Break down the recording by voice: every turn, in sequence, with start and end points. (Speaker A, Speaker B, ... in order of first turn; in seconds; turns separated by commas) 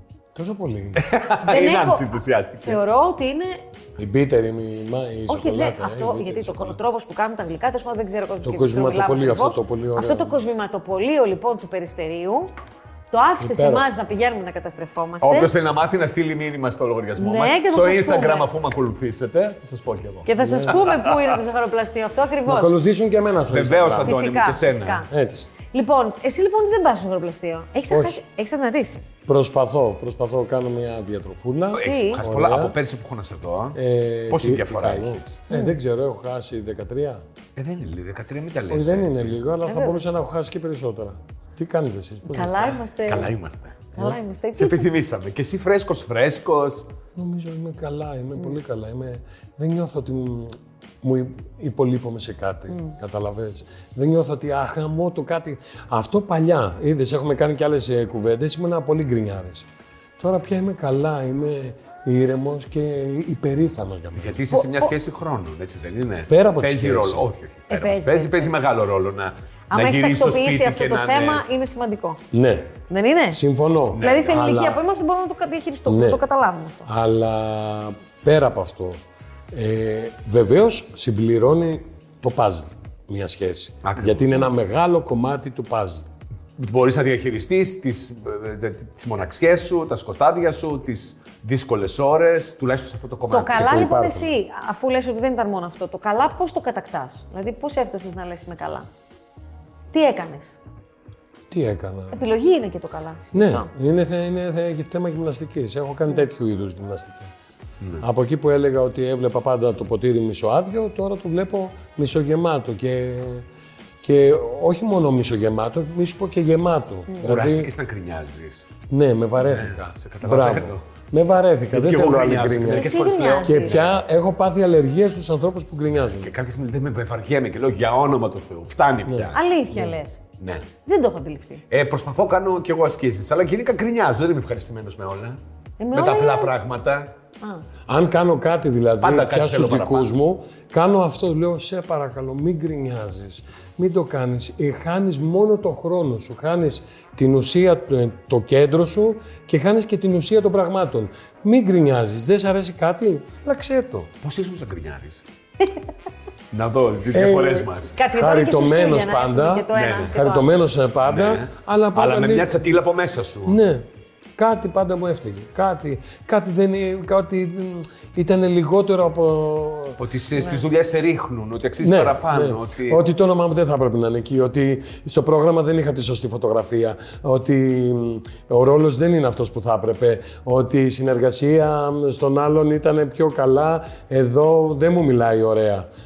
Speaker A: 0.3-1.0, Speaker B: 1.0-2.8, Speaker C: 1.5-2.0, Speaker C: 2.6-3.6, Speaker A: 4.0-6.8, Speaker C: 5.3-12.5, Speaker A: 8.4-10.4, Speaker C: 13.1-15.5, Speaker A: 13.4-13.9, Speaker B: 15.2-21.4, Speaker C: 17.2-18.5, Speaker C: 20.3-22.8, Speaker A: 20.4-20.8, Speaker A: 22.5-24.2, Speaker B: 23.5-25.0, Speaker C: 24.0-25.1, Speaker A: 25.1-25.5, Speaker C: 25.7-29.1, Speaker A: 27.9-28.2, Speaker A: 29.3-32.8, Speaker B: 31.7-33.8, Speaker C: 31.8-32.2, Speaker A: 33.8-37.2, Speaker B: 34.3-35.4, Speaker C: 35.5-35.8, Speaker B: 37.5-39.4, Speaker A: 38.7-42.8, Speaker C: 39.7-40.0, Speaker C: 42.3-43.3, Speaker B: 43.1-46.9, Speaker C: 44.0-44.9, Speaker A: 47.2-59.7, Speaker A: 60.2-64.4, Speaker B: 64.2-71.5, Speaker C: 64.5-64.9, Speaker A: 66.3-67.3, Speaker C: 67.7-68.5, Speaker C: 69.7-72.2, Speaker A: 72.3-72.8, Speaker C: 72.9-73.4, Speaker A: 73.3-74.8, Speaker B: 73.9-74.4, Speaker C: 74.0-76.9, Speaker A: 75.9-76.2, Speaker A: 76.9-79.0, Speaker A: 79.5-86.1, Speaker B: 83.8-84.5, Speaker B: 86.6-93.8, Speaker C: 93.3-98.9, Speaker A: 93.5-94.3, Speaker C: 99.9-100.6, Speaker A: 101.5-102.2, Speaker C: 102.1-103.7, Speaker A: 103.3-107.3, Speaker A: 108.0-113.5, Speaker A: 114.0-117.7, Speaker B: 117.2-118.7, Speaker A: 118.9-122.9, Speaker B: 119.4-120.8, Speaker B: 121.7-123.9, Speaker C: 122.7-123.8, Speaker A: 123.5-126.3, Speaker B: 126.1-129.4, Speaker A: 129.1-130.0, Speaker C: 129.3-130.2, Speaker B: 130.4-130.7, Speaker C: 130.9-131.6, Speaker B: 131.7-135.4, Speaker C: 135.8-136.5, Speaker B: 135.9-137.1, Speaker A: 137.9-154.1, Speaker B: 139.0-140.1, Speaker B: 154.2-155.2, Speaker B: 156.5-157.9, Speaker A: 157.1-162.7, Speaker C: 157.9-160.5, Speaker B: 159.7-160.2, Speaker B: 161.0-163.6, Speaker A: 163.5-163.9, Speaker A: 164.4-170.0, Speaker B: 170.0-173.0, Speaker A: 171.8-185.9